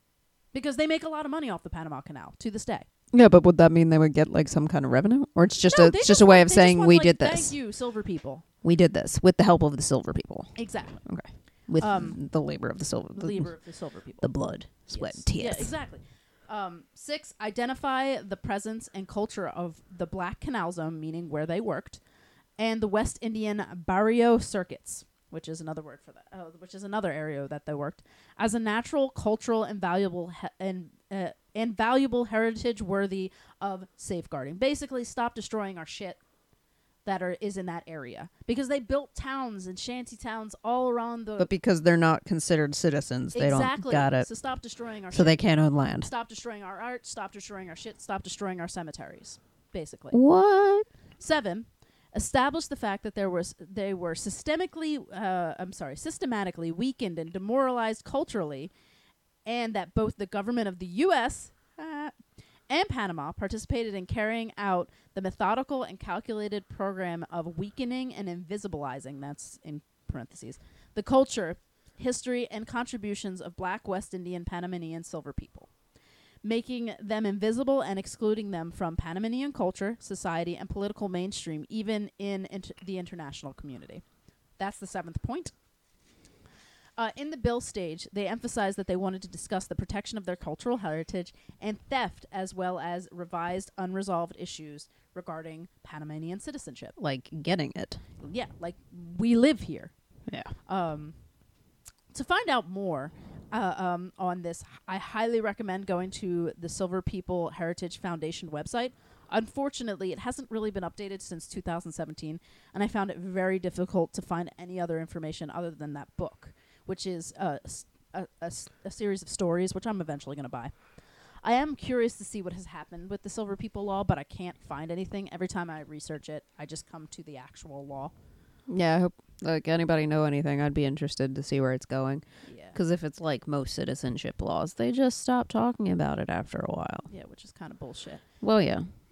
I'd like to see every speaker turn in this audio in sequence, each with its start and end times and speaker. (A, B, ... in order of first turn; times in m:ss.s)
0:00.5-0:02.9 A
0:03.1-0:07.5 B
0:05.7-0:08.4 A
0:08.6-0:13.5 B
0:10.6-0:11.0 A
0:11.8-0:12.2 A
0:13.2-0:14.3 A
0:14.2-0:15.7 B
0:14.9-0:22.0 A
0:22.6-0:36.2 A
0:37.0-0:41.5 A
0:41.4-0:44.3 B
0:43.3-0:45.4 A
0:45.1-0:46.1 B
0:46.0-0:50.2 A
0:50.1-0:50.9 B
0:51.2-0:58.7 A
0:59.4-1:02.2 A
1:02.7-1:15.7 A
1:16.4-1:24.0 A
1:24.6-1:25.5 A
1:27.0-1:36.9 A
1:37.0-1:38.0 B
1:38.2-1:39.9 A
1:40.3-1:40.5 B
1:40.7-1:41.1 A
1:42.1-2:00.7 A
2:01.4-2:08.1 A
2:08.7-2:17.1 B
2:12.4-2:12.8 A
2:17.1-2:18.2 A
2:18.4-2:18.9 B